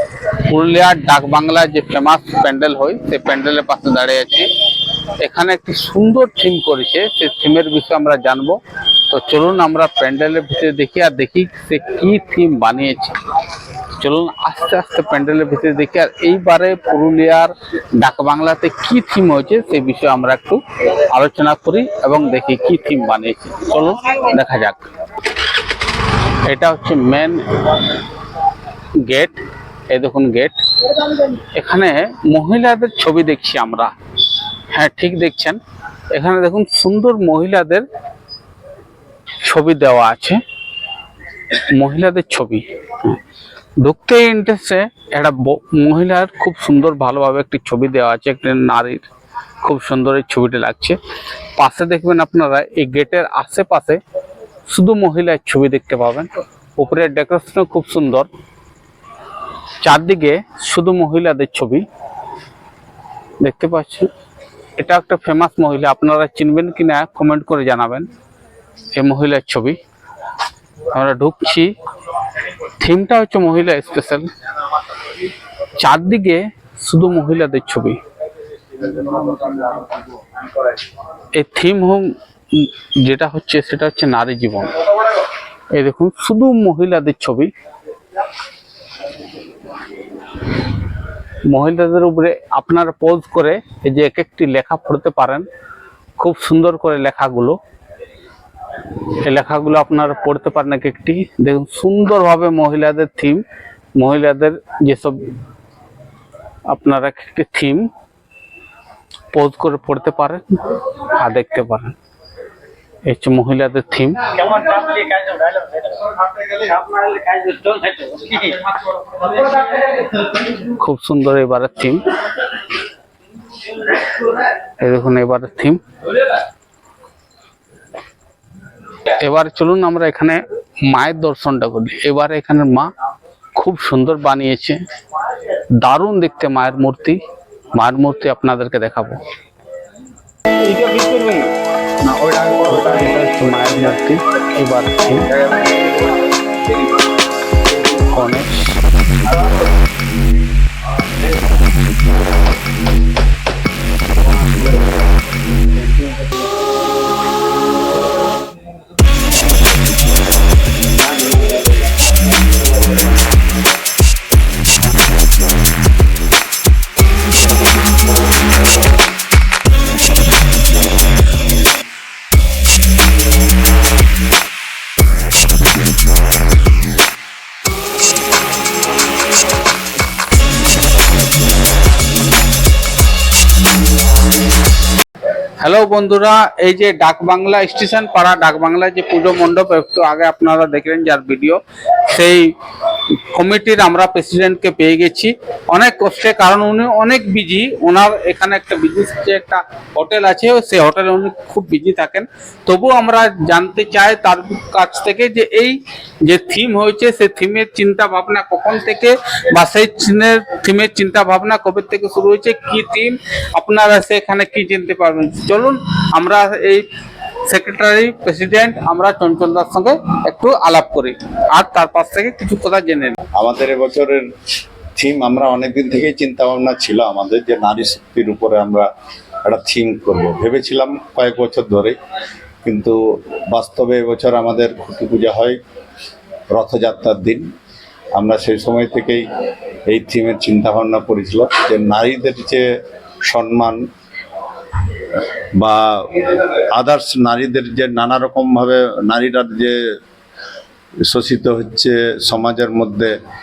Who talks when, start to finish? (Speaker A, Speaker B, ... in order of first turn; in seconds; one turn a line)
Speaker A: 0.3-4.5
Speaker A: 5.2-13.2
Speaker A: 13.9-24.9
Speaker A: 26.2-28.0
Speaker A: 28.9-35.6
Speaker A: 36.1-37.9
Speaker A: 39.4-40.4
Speaker A: 41.5-43.2
Speaker A: 43.8-49.1
Speaker A: 49.6-51.0
Speaker A: 51.5-54.0
Speaker A: 54.7-58.3
Speaker A: 59.8-61.9
Speaker A: 63.4-64.1
Speaker A: 64.8-68.1
Speaker A: 68.9-69.8
Speaker A: 70.9-71.8
Speaker A: 72.5-74.3
Speaker A: 75.1-78.0
Speaker A: 78.8-79.7
Speaker A: 81.3-87.5
Speaker A: 91.4-95.5
Speaker A: 96.2-97.6
Speaker A: 99.1-103.4
Speaker A: 104.0-105.2
Speaker A: 106.7-107.9
Speaker A: 109.3-112.0
Speaker A: 113.0-114.5
Speaker B: 114.3-119.5
Speaker A: 120.2-122.6
Speaker A: 123.7-126.2
Speaker A: 129.0-132.9
Speaker A: 133.5-134.8
Speaker A: 135.5-137.2
Speaker A: 137.7-139.2
Speaker B: 140.6-143.7
Speaker A: 142.7-145.3
Speaker B: 145.3-146.2
Speaker A: 148.0-148.8
Speaker B: 154.3-154.8
Speaker B: 155.8-156.3
Speaker A: 185.6-192.5
Speaker A: 193.1-216.9
Speaker A: 217.4-223.2
Speaker C: 223.3-224.3
Speaker C: 224.9-228.9
Speaker C: 229.4-231.9
Speaker C: 232.6-235.6
Speaker C: 236.5-237.5
Speaker C: 238.1-239.2
Speaker C: 239.9-242.7
Speaker C: 243.2-243.8
Speaker C: 244.9-249.8
Speaker C: 251.0-253.1